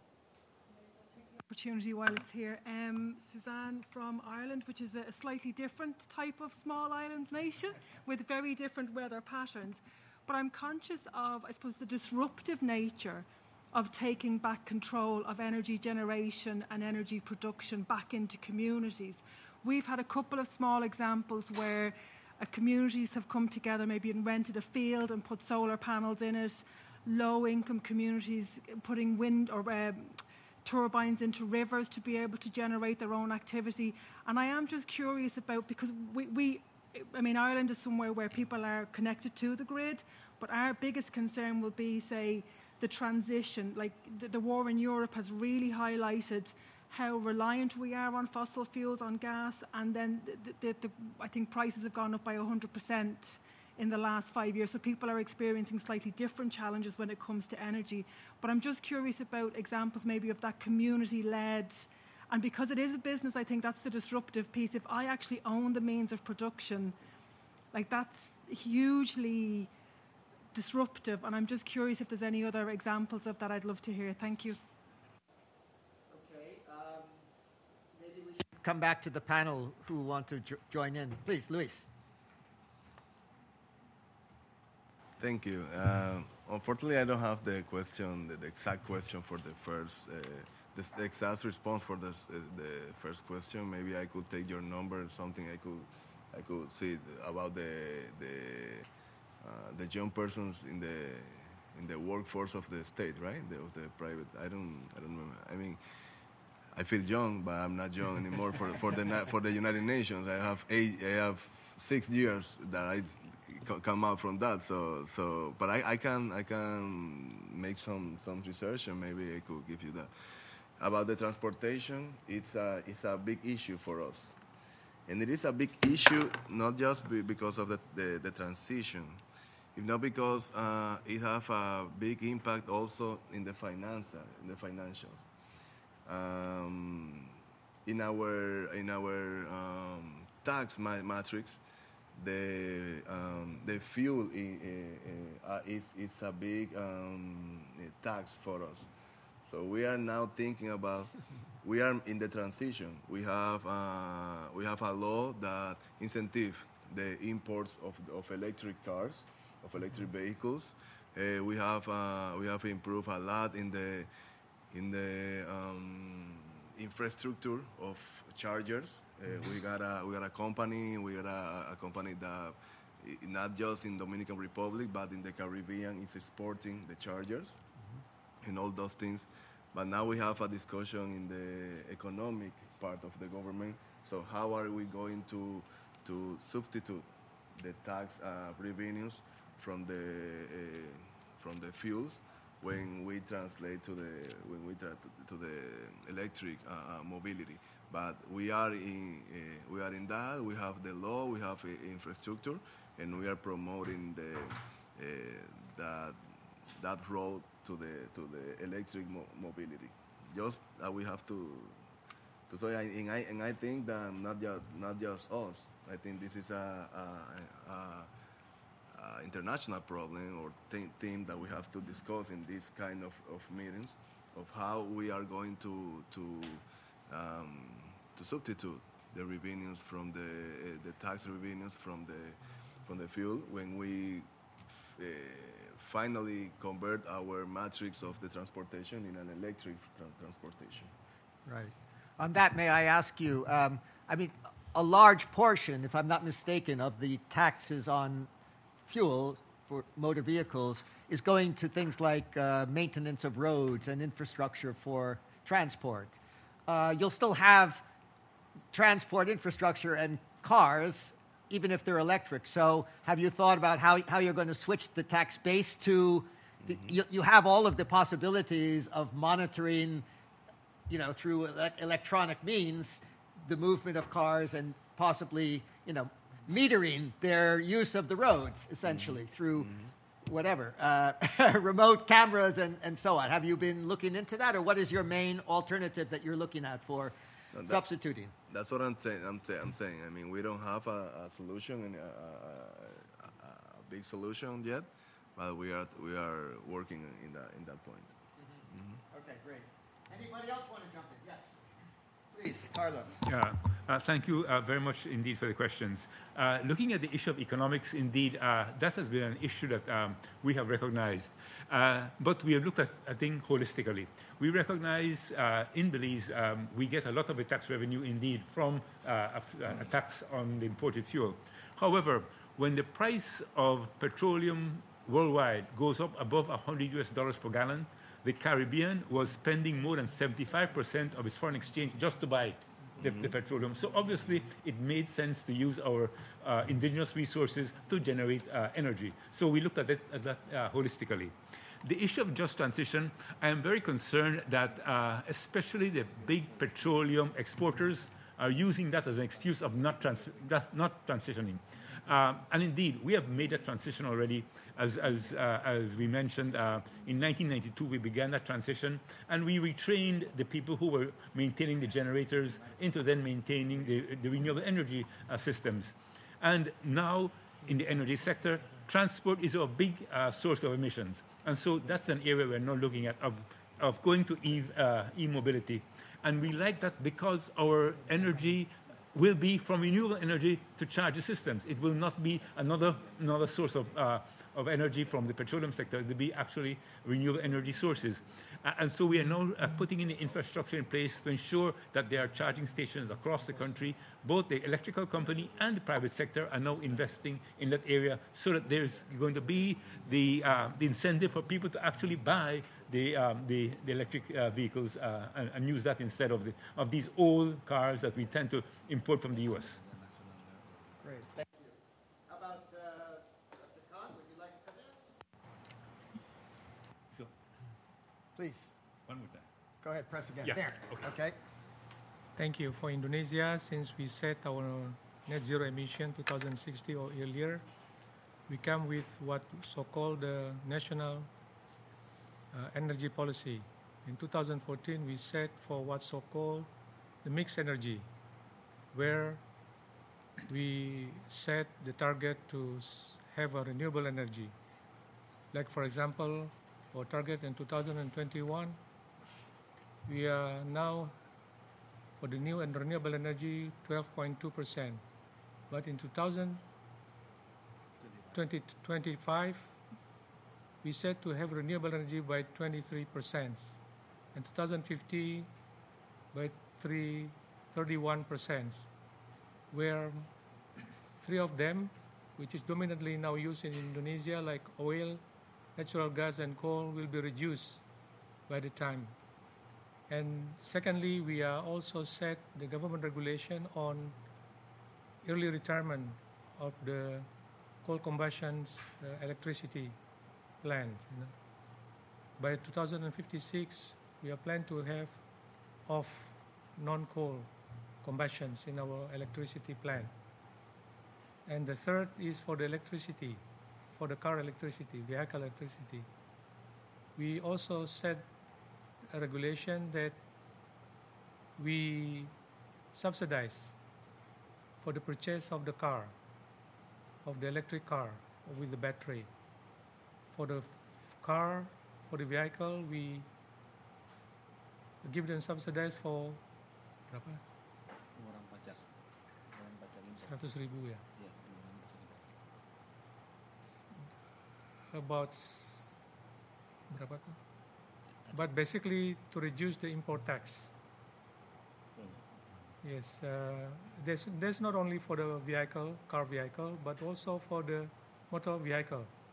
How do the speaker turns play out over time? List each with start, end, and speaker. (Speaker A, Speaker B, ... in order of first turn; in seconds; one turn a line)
Speaker A: 1.3-67.0
Speaker A: 67.7-69.7
Speaker A: 70.5-74.6
Speaker B: 76.1-77.3
Speaker B: 77.9-81.9
Speaker C: 85.2-98.8
Speaker C: 99.4-105.8
Speaker C: 106.7-120.1
Speaker C: 120.8-124.3
Speaker C: 125.1-129.2
Speaker C: 129.7-135.3
Speaker C: 136.1-141.6
Speaker C: 142.1-148.9
Speaker C: 149.4-164.1
Speaker C: 164.7-177.6
Speaker C: 178.4-206.2
Speaker C: 206.8-211.8
Speaker C: 212.5-218.1
Speaker C: 218.9-234.3
Speaker C: 235.0-240.9
Speaker B: 241.4-248.3
Speaker B: 248.9-257.8
Speaker B: 258.7-270.1
Speaker C: 266.6-266.9
Speaker B: 270.9-279.7
Speaker C: 279.0-279.9
Speaker B: 280.2-288.3
Speaker C: 287.5-287.9
Speaker C: 288.5-298.1
Speaker B: 298.4-301.6
Speaker C: 298.7-299.0
Speaker B: 302.3-303.2
Speaker D: 303.2-409.8
Speaker E: 345.9-350.6
Speaker E: 353.4-353.8
Speaker E: 354.7-355.6
Speaker E: 356.4-357.3
Speaker E: 361.8-363.1
Speaker E: 363.6-364.0
Speaker E: 382.3-384.2
Speaker E: 384.7-386.1
Speaker E: 387.7-388.3
Speaker E: 390.0-391.2
Speaker E: 393.4-393.9
Speaker E: 395.1-395.7
Speaker E: 396.4-397.4
Speaker E: 398.6-401.0
Speaker E: 409.0-411.3
Speaker B: 411.0-415.0
Speaker B: 418.4-418.7
Speaker D: 419.1-419.4
Speaker B: 419.8-421.4
Speaker D: 420.4-421.1
Speaker F: 422.4-427.6
Speaker F: 428.5-431.3
Speaker F: 432.5-436.7
Speaker F: 437.2-438.1
Speaker F: 438.9-439.4
Speaker F: 440.5-444.5
Speaker F: 445.5-448.8
Speaker F: 450.0-451.2
Speaker F: 452.2-455.0
Speaker F: 455.7-456.6
Speaker E: 458.0-458.5
Speaker F: 458.3-459.7
Speaker F: 460.8-463.8
Speaker F: 464.3-465.5
Speaker F: 466.3-468.9
Speaker F: 469.7-470.3
Speaker F: 471.2-475.2
Speaker F: 475.8-477.8
Speaker F: 478.5-479.1
Speaker F: 480.1-484.1
Speaker F: 485.2-487.3
Speaker F: 487.8-490.0
Speaker F: 490.6-491.3
Speaker F: 492.4-495.2
Speaker F: 495.9-497.5
Speaker F: 498.0-500.1
Speaker F: 501.5-503.4
Speaker F: 503.9-506.1
Speaker F: 507.1-508.3
Speaker F: 509.1-510.2
Speaker F: 511.6-512.3
Speaker F: 512.9-513.7
Speaker F: 514.8-516.1
Speaker F: 517.2-519.3
Speaker F: 520.3-523.3
Speaker F: 525.0-526.4
Speaker F: 527.1-527.4
Speaker E: 528.1-528.9
Speaker E: 529.5-532.3
Speaker F: 530.1-531.0
Speaker F: 534.9-535.9
Speaker F: 536.9-537.4
Speaker F: 538.3-540.7
Speaker E: 541.9-542.7
Speaker F: 542.8-549.1